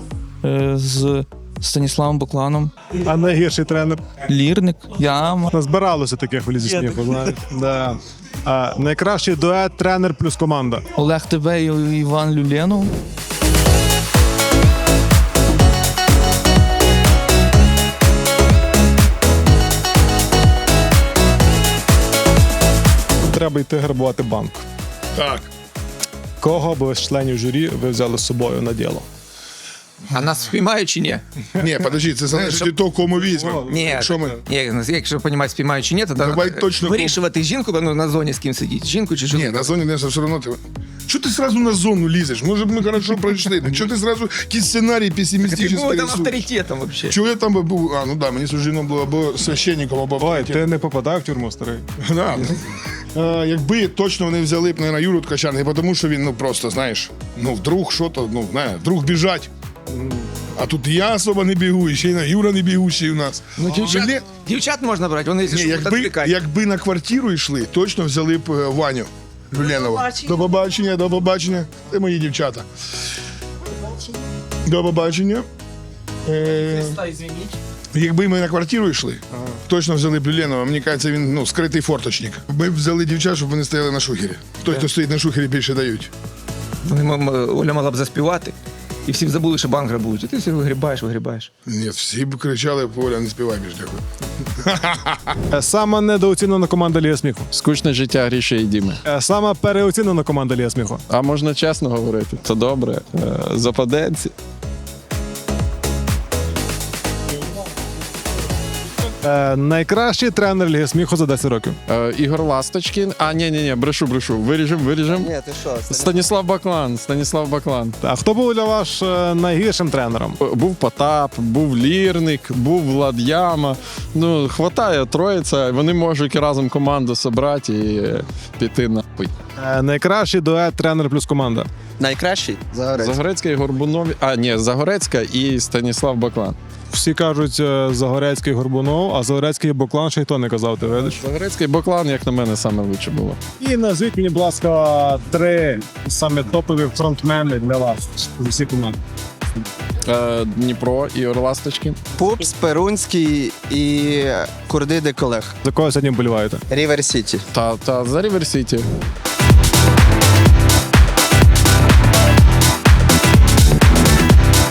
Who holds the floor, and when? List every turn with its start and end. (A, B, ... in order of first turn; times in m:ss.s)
0:00.4-0:02.7 A
0:03.0-0:04.0 B
0:04.2-0:05.5 A
0:05.5-0:10.8 B
0:11.0-0:12.9 A
0:23.3-0:24.6 B
0:25.1-0:25.5 C
0:26.4-0:29.0 B
0:30.1-0:31.2 D
0:31.6-0:34.4 C
0:32.3-0:32.8 D
0:33.6-0:39.7 D
0:36.2-0:37.2 C
0:39.3-0:46.5 C
0:45.4-0:47.2 D
0:47.0-0:50.6 C
0:50.2-0:51.9 B
0:52.0-0:59.5 C
0:59.9-1:00.3 B
1:00.5-1:04.2 C
1:03.6-1:06.4 D
1:05.4-1:12.7 C
1:14.6-1:15.5 C
1:16.2-1:17.2 C
1:17.9-1:26.1 C
1:26.8-1:28.5 D
1:29.0-1:31.5 D
1:31.6-1:34.0 C
1:34.6-1:35.3 C
1:35.5-1:37.5 B
1:37.5-1:39.0 E
1:39.0-1:41.0 B
1:41.1-1:44.3 E
1:49.2-1:51.8 B
1:51.9-1:55.3 E
1:55.1-1:56.0 F
1:55.9-1:58.0 E
1:58.0-2:00.4 B
2:00.4-2:09.3 E
2:09.6-2:11.7 B
2:12.0-2:13.1 F
2:13.0-2:16.6 E
2:16.9-2:21.2 B
2:21.2-2:23.4 E
2:23.6-2:29.0 B
2:30.1-2:32.0 E
2:32.2-2:35.5 F
2:35.6-2:36.6 B
2:36.7-2:37.4 F
2:37.5-2:38.8 E